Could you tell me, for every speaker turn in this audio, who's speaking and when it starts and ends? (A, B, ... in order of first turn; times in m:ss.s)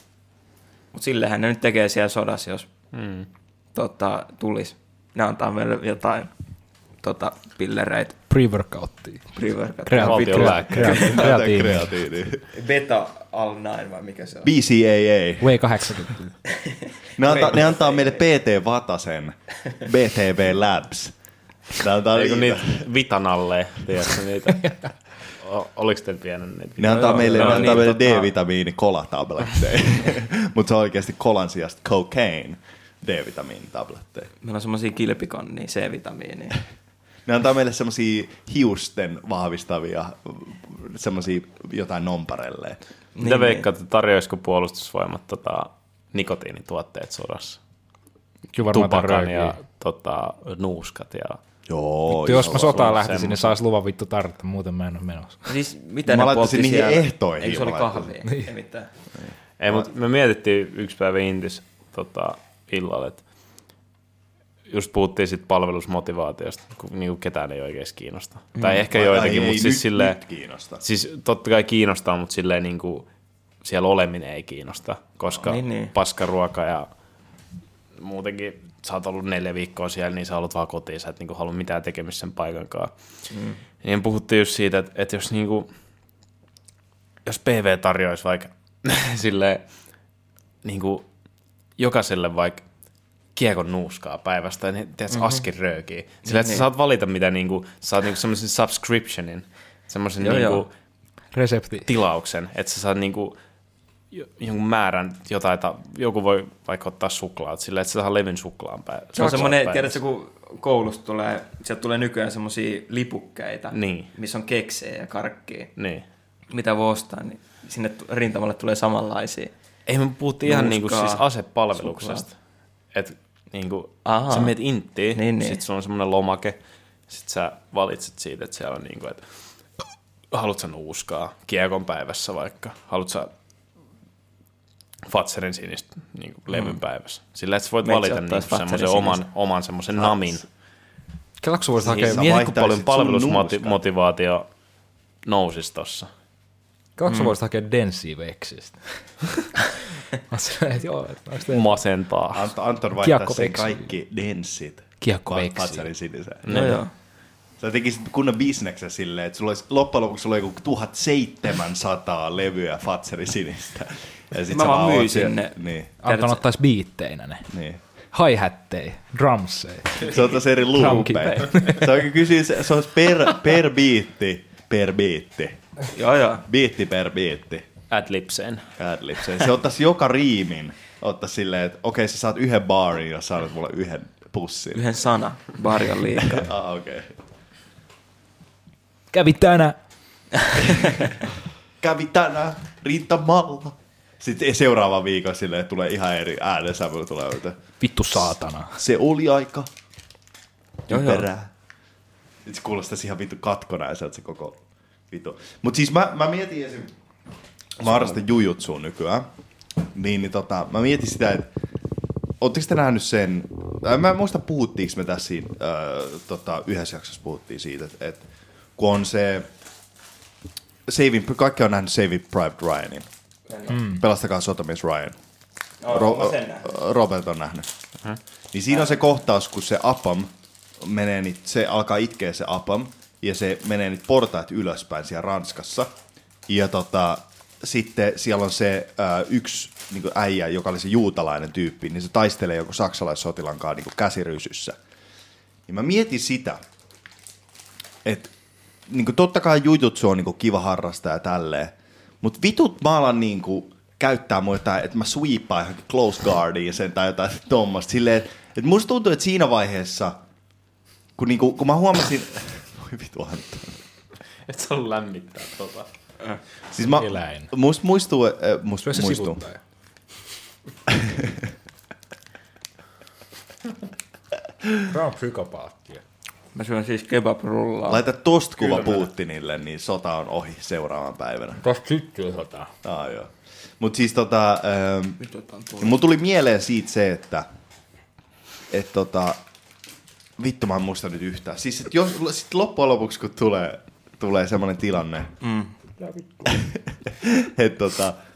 0:00.9-0:02.7 A
0:02.9-0:03.3 B
0:03.8-0:06.3 A
0:07.0-0:08.2 A
0:08.3-0:09.3 C
0:09.3-0:11.3 A
0:09.9-0:11.9 C
0:10.0-0:11.2 B
0:10.7-0:12.4 D
0:12.5-0:14.5 A
0:14.4-0:15.6 D
0:15.4-0:16.3 C
0:16.5-0:18.2 A
0:17.2-0:21.1 D
0:21.7-0:22.8 D
0:22.1-0:24.9 B
0:25.4-0:27.9 B
0:26.8-0:34.3 D
0:26.9-0:28.3 A
0:34.4-0:36.6 A
0:37.3-0:42.8 D
0:43.2-0:43.7 A
0:43.2-0:47.6 B
0:48.5-0:49.6 C
0:48.6-0:51.4 B
0:51.7-0:53.0 D
0:52.1-0:55.5 C
0:52.4-0:53.5 B
0:55.5-0:58.9 A
0:56.1-0:58.2 D
0:59.2-0:59.9 D
0:59.6-1:03.2 B
1:04.7-1:10.2 B
1:08.6-1:08.8 A
1:08.9-1:10.8 D
1:10.8-1:13.1 B
1:13.6-1:16.9 B
1:15.4-1:15.9 A
1:18.0-1:22.9 B
1:23.3-1:23.6 A
1:23.8-1:25.7 B
1:27.2-1:29.6 B
1:30.6-1:31.0 B
1:31.8-1:32.6 B
1:33.4-1:40.7 B
1:35.1-1:35.4 A
1:36.2-1:36.7 A
1:40.2-1:40.6 A
1:41.3-1:41.9 C
1:41.8-1:43.4 B
1:44.1-1:50.0 B
1:49.2-1:55.7 A
1:53.7-1:54.1 B
1:55.8-1:56.0 B
1:56.5-1:59.5 A
1:59.9-2:02.3 B
2:00.4-2:02.3 A
2:02.9-2:06.6 B
2:04.0-2:04.6 A
2:05.1-2:05.6 A
2:07.1-2:09.2 B
2:10.3-2:13.3 B
2:15.1-2:20.5 B
2:16.5-2:16.8 A
2:17.8-2:19.2 A
2:20.0-2:20.4 D
2:21.4-2:22.3 C
2:21.8-2:24.5 B
2:21.8-2:23.8 D
2:25.2-2:26.1 B
2:27.0-2:29.5 C
2:30.2-2:31.8 C
2:31.4-2:32.5 B
2:32.3-2:36.5 D
2:33.0-2:33.8 C
2:35.0-2:35.9 C
2:36.5-2:36.8 B
2:36.5-2:36.9 A
2:37.6-2:45.9 D
2:44.5-2:46.4 A
2:46.0-2:47.5 C
2:47.5-2:47.8 D
2:48.1-2:51.9 C
2:50.0-2:55.6 D
2:50.8-2:51.5 A
2:55.9-2:56.4 A
2:56.4-2:57.7 D
2:57.9-2:58.6 B
2:58.8-3:04.8 D
3:04.7-3:06.5 A
3:06.2-3:07.1 D
3:09.1-3:09.8 C
3:10.6-3:11.0 D
3:11.8-3:17.6 D
3:17.8-3:18.8 C
3:18.8-3:19.7 D
3:20.9-3:21.5 D
3:20.9-3:21.3 A
3:22.5-3:24.6 D
3:25.1-3:26.9 D
3:27.8-3:29.3 D
3:29.8-3:31.5 D
3:32.4-3:38.2 D
3:38.8-3:39.5 D
3:40.9-3:43.1 D
3:43.5-3:43.8 A
3:43.7-3:45.2 D
3:43.7-3:44.0 C
3:45.8-3:46.7 A
3:45.9-3:47.7 D
3:48.5-3:50.3 D
3:50.8-3:55.9 D
3:56.5-4:04.8 D
4:05.7-4:06.6 D
4:08.0-4:08.3 D
4:08.9-4:20.2 D
4:21.2-4:23.8 D
4:24.5-4:25.9 B
4:26.7-4:29.4 D
4:26.9-4:27.5 C
4:28.8-4:29.6 C
4:30.9-4:31.5 D
4:34.9-4:36.0 C
4:36.5-4:38.1 A
4:37.9-4:41.6 D
4:38.6-4:39.0 B
4:41.6-4:42.7 C
4:42.8-4:45.2 D
4:45.2-4:46.0 A
4:45.8-4:47.5 D
4:48.7-4:49.4 D
4:50.4-4:55.3 D
4:55.4-4:55.7 A
4:56.2-4:56.5 C
4:56.4-4:58.2 D